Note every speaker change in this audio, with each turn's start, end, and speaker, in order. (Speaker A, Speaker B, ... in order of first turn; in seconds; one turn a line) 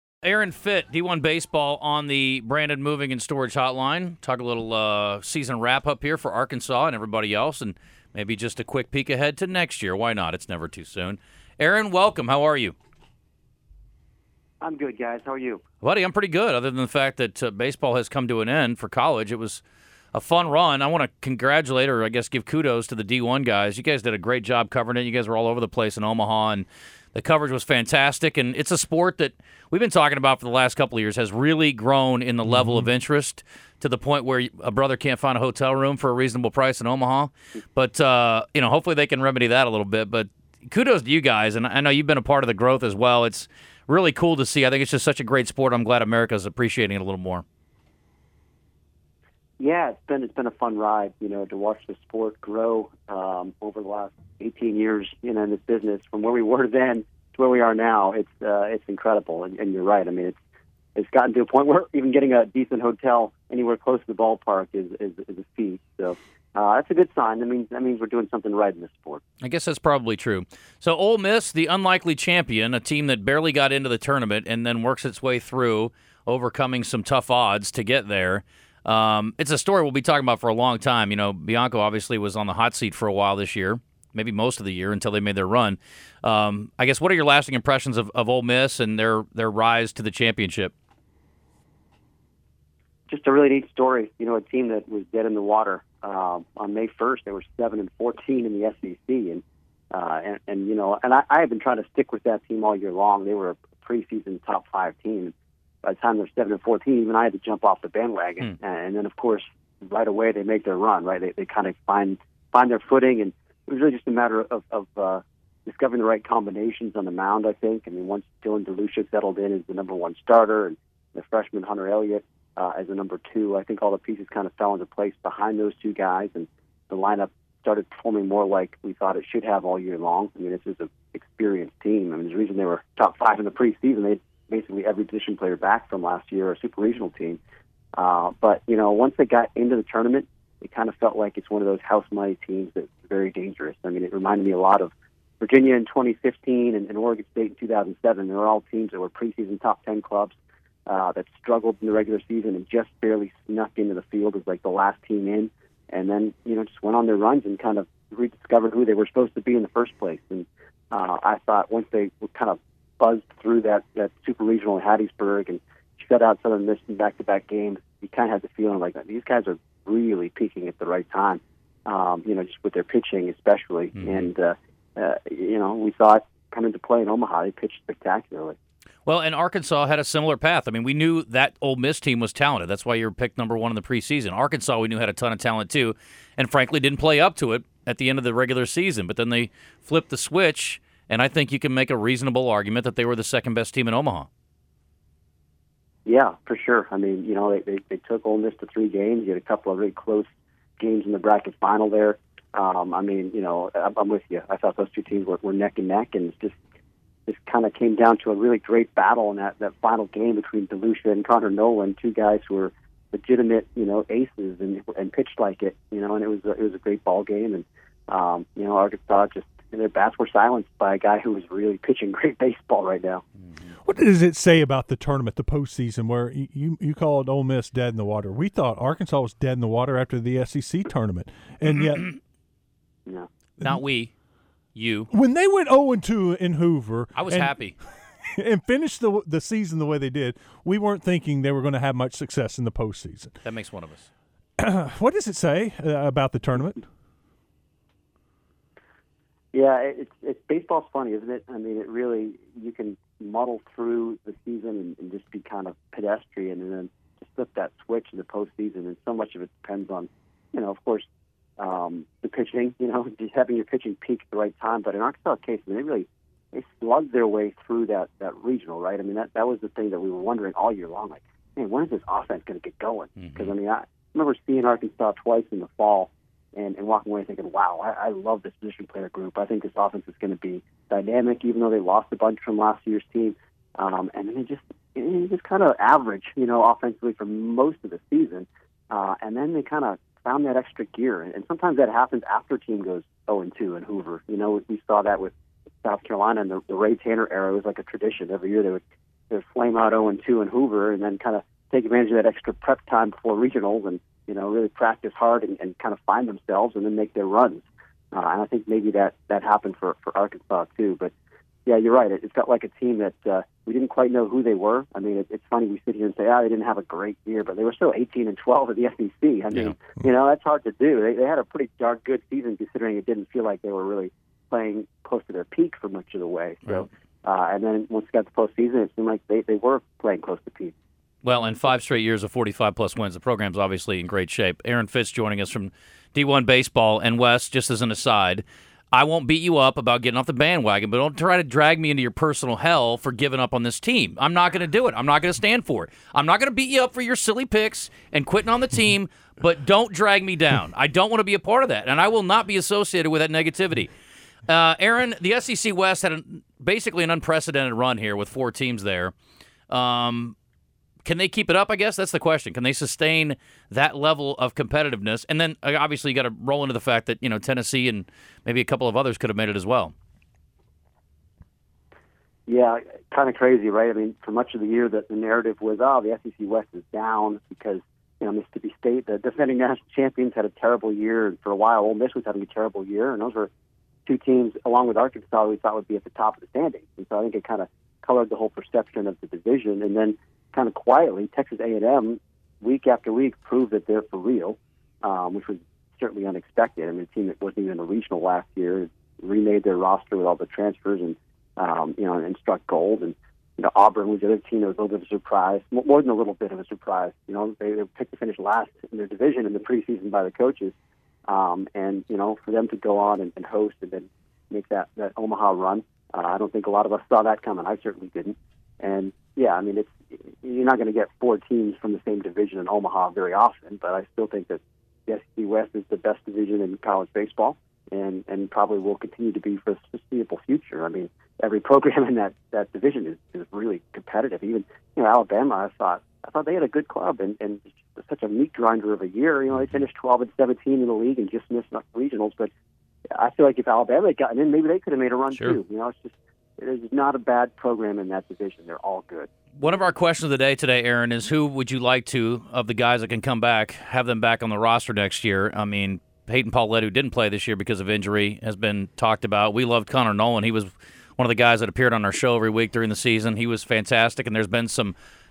Speaker A: 0.2-12.7
Speaker B: 14.6-15.6
Speaker A: 15.8-19.6
Speaker A: 20.1-47.4
Speaker B: 49.6-60.4
Speaker B: 60.9-69.2
Speaker A: 69.4-90.7
Speaker B: 93.1-105.3
Speaker B: 105.8-137.4
Speaker B: 137.9-150.3
Speaker B: 150.9-178.6
Speaker A: 174.0-174.3
Speaker A: 179.1-194.3
Speaker B: 196.0-206.6
Speaker B: 207.3-223.2
Speaker C: 223.8-232.1
Speaker A: 233.6-234.1
Speaker A: 234.7-235.1
Speaker C: 235.1-237.5
Speaker A: 237.1-237.8
Speaker C: 238.2-243.3
Speaker A: 243.4-244.1
Speaker C: 244.6-246.8
Speaker B: 249.5-261.1
Speaker B: 261.6-295.3
Speaker A: 273.2-273.5
Speaker B: 295.8-311.1
Speaker B: 311.6-330.7
Speaker A: 331.2-353.9
Speaker A: 354.5-359.1
Speaker A: 359.7-360.3
Speaker A: 361.0-369.9
Speaker B: 372.5-383.5
Speaker B: 384.1-410.8
Speaker B: 411.3-442.5
Speaker B: 443.1-449.3
Speaker A: 449.6-464.9